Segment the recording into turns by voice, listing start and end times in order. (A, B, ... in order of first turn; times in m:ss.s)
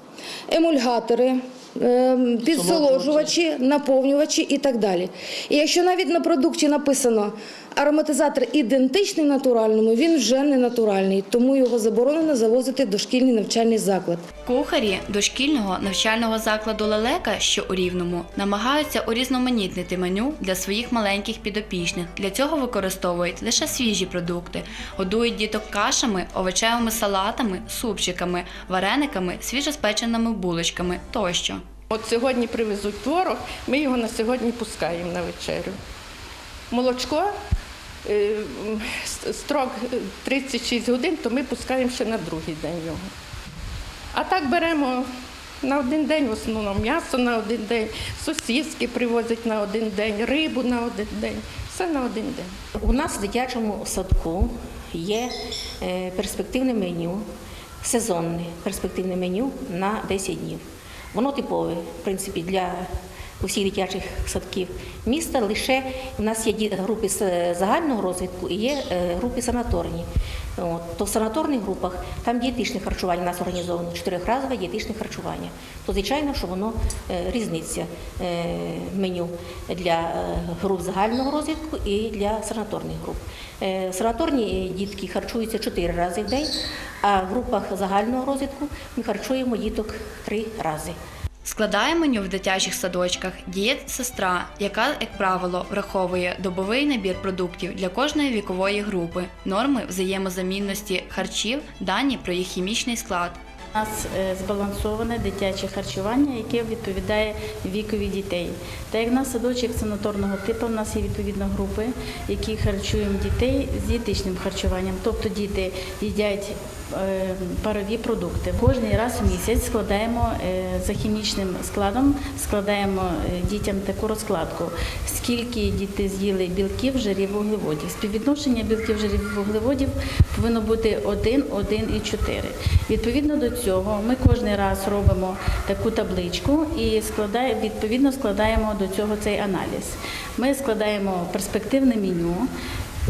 0:00.5-0:14.2 A
0:14.4-0:31.6 B
0:31.9-0:35.8 C
0:36.7-0:37.3 C
0:38.0-0:43.0 C
0:44.1-0:45.0 C
0:45.6-0:52.5 C
0:52.8-0:55.3 D
0:55.8-0:57.2 D
0:57.8-1:00.6 D
1:01.1-1:02.8 D
1:03.4-1:10.0 D
1:10.6-1:26.5 D
1:27.0-1:30.9 D
1:31.4-1:43.4 B
1:43.7-2:22.5 E